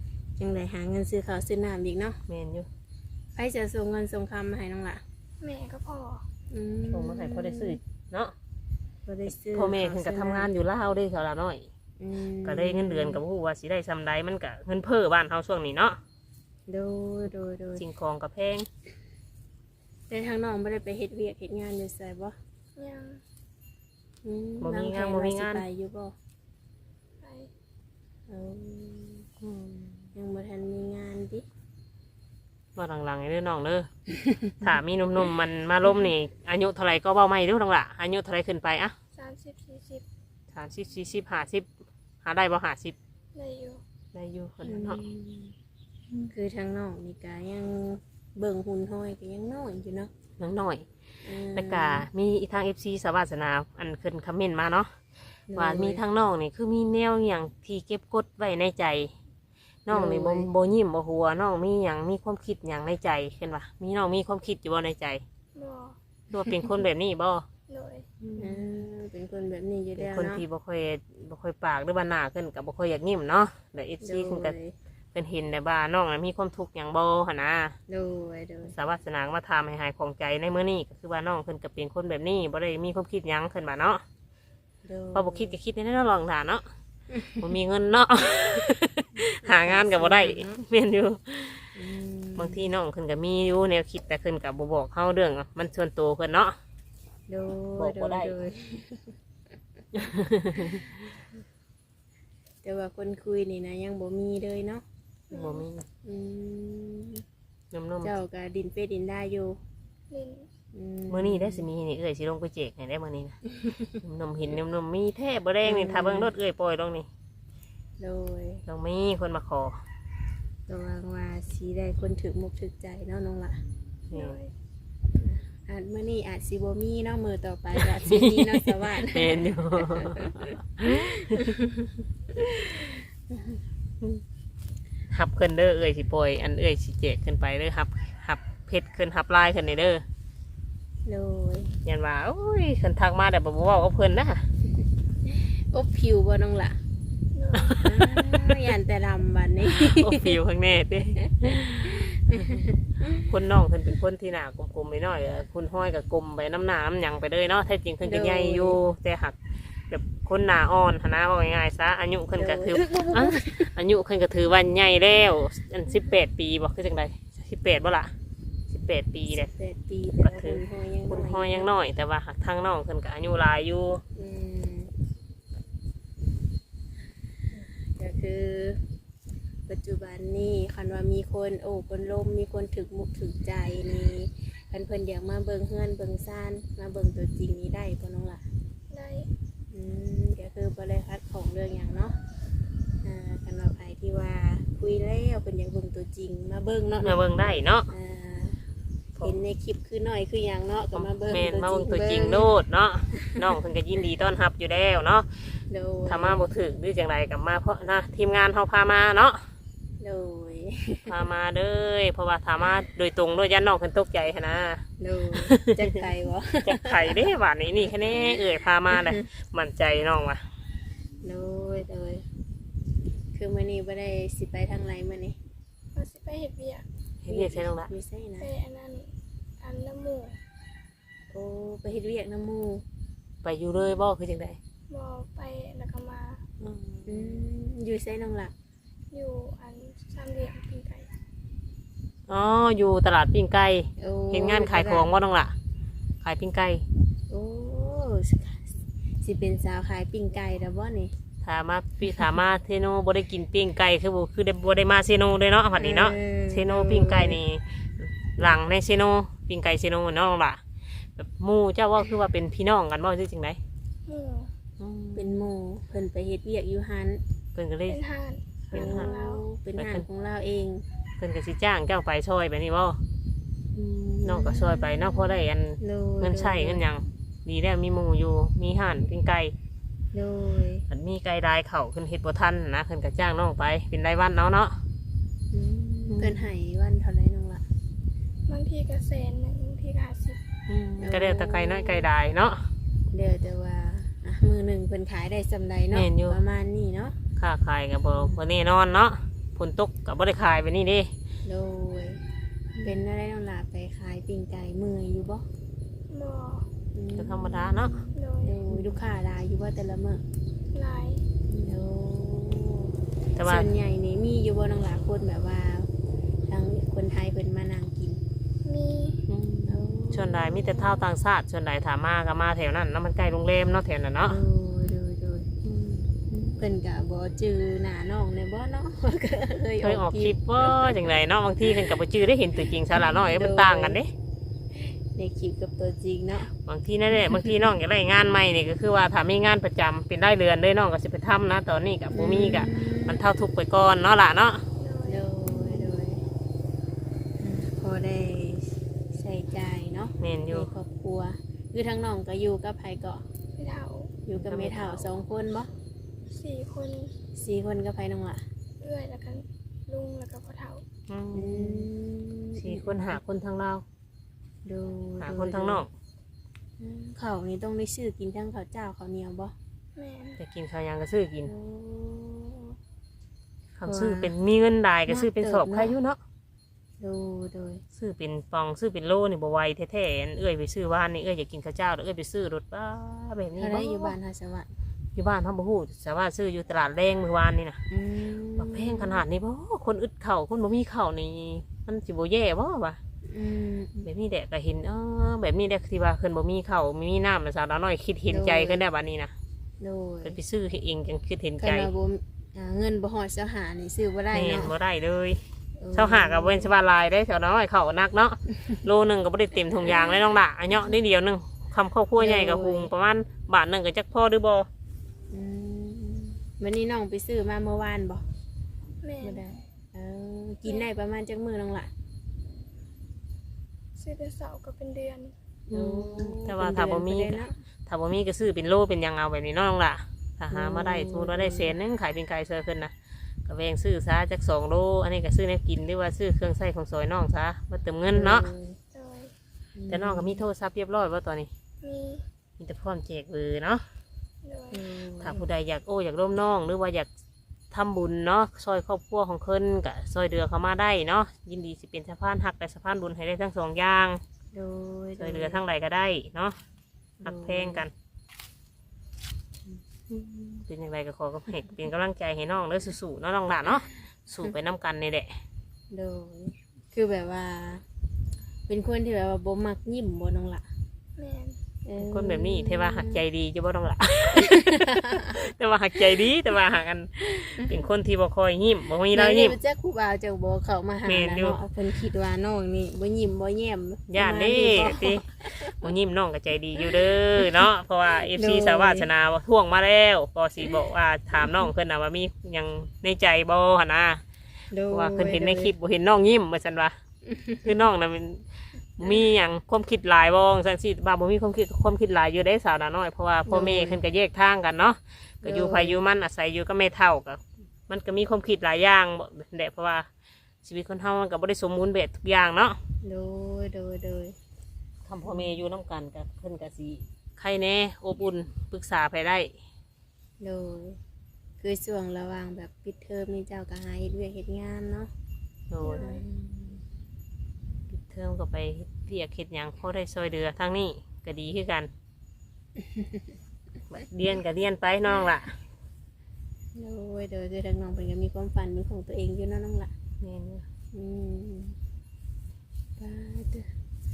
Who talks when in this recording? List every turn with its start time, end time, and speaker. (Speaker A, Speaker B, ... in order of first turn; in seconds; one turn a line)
Speaker A: 0.4-2.2
Speaker B: 2.3-2.7
Speaker A: 3.4-5.0
Speaker C: 5.4-6.3
Speaker A: 6.5-7.8
Speaker B: 6.9-8.3
Speaker A: 9.1-10.5
Speaker B: 9.3-11.7
Speaker A: 12.0-13.2
Speaker B: 12.4-16.0
Speaker A: 16.7-17.9
Speaker B: 17.8-18.7
Speaker A: 20.1-22.4
Speaker C: 22.8-23.2
Speaker A: 24.2-26.1
Speaker B: 24.6-25.6
Speaker C: 27.2-27.5
Speaker A: 28.3-29.3
Speaker B: 29.4-30.1
Speaker A: 30.1-31.4
Speaker B: 32.8-33.9
Speaker B: 34.6-39.0
Speaker C: 39.1-40.0
Speaker B: 40.5-41.7
Speaker B: 42.2-43.0
Speaker C: 43.4-43.8
Speaker B: 44.1-45.0
Speaker A: 44.6-45.5
Speaker A: 46.3-50.1
Speaker B: 50.4-50.9
Speaker A: 51.2-52.1
Speaker B: 51.5-54.9
Speaker A: 55.5-56.0
Speaker B: 55.5-59.1
Speaker B: 59.9-65.2
Speaker A: 59.9-60.5
Speaker C: 65.5-66.0
Speaker B: 66.3-67.5
Speaker C: 67.7-68.1
Speaker B: 68.2-68.6
Speaker A: 68.4-70.5
Speaker B: 70.0-74.5
Speaker A: 74.0-74.8
Speaker B: 75.1-77.8
Speaker A: 77.9-78.7
Speaker B: 78.7-84.0
Speaker A: 84.8-85.6
Speaker B: 85.1-86.7
Speaker B: 87.2-91.8
Speaker A: 89.4-90.6
Speaker A: 91.8-92.7
Speaker B: 92.4-96.6
Speaker A: 97.3-99.1
Speaker B: 97.8-98.4
Speaker B: 99.9-100.9
Speaker A: 102.6-104.8
Speaker C: 105.3-105.7
Speaker B: 105.3-105.8
Speaker A: 106.0-107.2
Speaker B: 107.7-108.2
Speaker A: 108.0-109.6
Speaker C: 110.1-110.5
Speaker A: 110.7-111.7
Speaker B: 111.1-113.4
Speaker B: 114.0-117.1
Speaker A: 115.6-116.3
Speaker A: 118.0-118.6
Speaker B: 118.7-119.8
Speaker A: 120.7-123.6
Speaker B: 124.1-124.4
Speaker C: 124.1-124.5
Speaker A: 125.2-131.9
Speaker B: 127.8-131.5
Speaker B: 132.4-132.7
Speaker A: 132.8-133.4
Speaker B: 135.1-140.0
Speaker A: 141.1-141.8
Speaker B: 141.8-144.5
Speaker A: 145.2-146.8
Speaker C: 147.3-147.8
Speaker B: 147.6-148.6
Speaker A: 147.8-150.4
Speaker B: 149.7-159.4
Speaker A: 151.4-153.1
Speaker A: 158.0-158.8
Speaker B: 159.9-168.1
Speaker A: 162.3-163.8
Speaker B: 168.7-169.5
Speaker A: 169.3-171.7
Speaker B: 170.2-174.0
Speaker A: 174.2-174.9
Speaker A: 177.5-178.8
Speaker A: 179.7-188.4
Speaker C: 188.9-189.3
Speaker A: 189.7-192.2
Speaker A: 193.0-197.2
Speaker B: 197.0-197.9
Speaker A: 197.9-198.6
Speaker A: 199.2-202.5
Speaker B: 200.9-209.4
Speaker A: 205.7-206.5
Speaker A: 210.0-211.2
Speaker B: 211.1-214.8
Speaker A: 215.0-217.2
Speaker B: 215.4-215.7
Speaker B: 216.7-220.4
Speaker A: 218.1-218.4
Speaker A: 218.9-219.2
Speaker A: 221.2-222.3
Speaker A: 223.3-225.4
Speaker C: 225.9-226.9
Speaker B: 227.2-227.9
Speaker A: 227.3-228.5
Speaker C: 228.4-230.4
Speaker A: 231.3-232.8
Speaker B: 233.4-234.6
Speaker C: 234.9-236.4
Speaker B: 236.6-237.5
Speaker A: 237.1-238.5
Speaker C: 239.1-241.1
Speaker B: 242.3-245.6
Speaker A: 244.0-245.1
Speaker B: 246.2-246.8
Speaker A: 247.3-251.1
Speaker B: 251.4-260.6
Speaker A: 255.8-257.4
Speaker B: 261.2-263.6
Speaker C: 264.1-264.5
Speaker B: 264.8-265.5
Speaker A: 265.1-267.2
Speaker B: 267.6-268.0
Speaker C: 267.9-269.4
Speaker B: 268.7-269.1
Speaker A: 268.7-270.8
Speaker B: 269.8-270.1
Speaker B: 271.2-273.0
Speaker A: 273.7-276.9
Speaker B: 274.2-279.6
Speaker A: 280.1-280.9
Speaker B: 280.9-284.8
Speaker A: 285.5-287.6
Speaker B: 286.1-286.5
Speaker C: 288.5-290.4
Speaker B: 290.7-292.7
Speaker A: 291.0-292.1
Speaker A: 293.1-297.2
Speaker B: 295.9-296.4
Speaker B: 297.4-301.1
Speaker A: 298.1-298.4
Speaker A: 301.4-302.2
Speaker A: 302.8-305.5
Speaker C: 306.1-306.7
Speaker A: 306.9-310.2
Speaker B: 307.2-308.1
Speaker C: 308.1-308.6
Speaker B: 308.7-309.0
Speaker C: 310.7-311.2
Speaker A: 311.5-315.9
Speaker B: 313.4-313.7
Speaker A: 316.5-318.2
Speaker C: 318.6-319.2
Speaker B: 319.3-324.4
Speaker A: 319.7-321.1
Speaker A: 324.3-325.5
Speaker B: 325.6-326.2
Speaker A: 326.3-332.0
Speaker B: 329.8-334.1
Speaker A: 332.6-334.0
Speaker A: 334.7-336.5
Speaker B: 336.6-344.6
Speaker A: 342.1-343.2
Speaker C: 344.8-345.3
Speaker A: 345.1-346.2
Speaker A: 347.4-353.2
Speaker B: 350.2-350.7
Speaker C: 353.6-354.1
Speaker A: 354.3-355.7
Speaker B: 354.3-355.1
Speaker C: 356.3-357.1
Speaker A: 357.3-358.4
Speaker C: 358.8-360.8
Speaker B: 361.1-361.9
Speaker A: 361.3-363.2
Speaker B: 362.5-363.9
Speaker A: 364.6-365.9
Speaker B: 365.2-365.9
Speaker A: 366.8-369.5
Speaker C: 370.0-370.4
Speaker B: 370.4-371.5
Speaker A: 371.4-372.8
Speaker B: 373.8-376.2
Speaker A: 373.9-374.4
Speaker A: 375.1-376.0
Speaker A: 377.0-377.8
Speaker B: 377.9-384.2
Speaker A: 383.6-384.7
Speaker B: 385.1-387.8
Speaker A: 387.9-389.2
Speaker B: 388.6-393.0
Speaker A: 393.2-394.1
Speaker B: 394.0-399.3
Speaker A: 398.3-398.8
Speaker A: 399.8-400.4
Speaker B: 400.2-401.9
Speaker A: 401.6-404.8
Speaker B: 404.3-405.4
Speaker A: 405.8-406.7
Speaker B: 405.9-414.7
Speaker A: 412.2-412.9
Speaker A: 415.3-418.2
Speaker C: 419.0-419.4
Speaker A: 419.2-421.9
Speaker C: 424.0-425.3
Speaker A: 425.7-427.6
Speaker B: 425.7-432.9
Speaker A: 430.5-431.8
Speaker B: 433.4-438.5
Speaker A: 438.1-438.8
Speaker C: 438.9-439.3
Speaker A: 439.8-440.4
Speaker B: 439.9-441.5
Speaker C: 441.8-442.3
Speaker B: 442.6-443.9
Speaker C: 444.4-444.8
Speaker A: 444.7-445.5
Speaker B: 445.2-447.1
Speaker B: 447.7-454.2
Speaker A: 454.5-455.6
Speaker B: 455.2-456.6
Speaker A: 457.2-457.9
Speaker B: 457.2-457.9
Speaker B: 460.5-465.4
Speaker A: 465.9-467.9
Speaker A: 468.7-470.7
Speaker C: 471.2-471.6
Speaker A: 471.9-473.2
Speaker B: 472.0-479.6
Speaker A: 474.3-475.2
Speaker A: 479.1-485.9
Speaker B: 481.1-481.6
Speaker B: 484.1-494.2
Speaker A: 486.8-487.6
Speaker A: 488.3-489.1
Speaker A: 494.7-495.7
Speaker B: 494.9-496.9
Speaker B: 497.6-510.1
Speaker A: 503.5-504.0
Speaker A: 505.4-506.0
Speaker B: 510.6-512.8
Speaker A: 513.0-514.4
Speaker B: 515.0-519.5
Speaker A: 515.2-515.6
Speaker A: 520.4-521.0
Speaker A: 521.6-525.1
Speaker B: 525.7-526.1
Speaker C: 525.8-526.2
Speaker A: 526.0-526.8
Speaker B: 527.9-531.9
Speaker A: 532.8-533.2
Speaker B: 533.9-535.6
Speaker A: 536.8-539.9
Speaker B: 540.2-540.6
Speaker A: 540.9-541.8
Speaker A: 543.0-543.7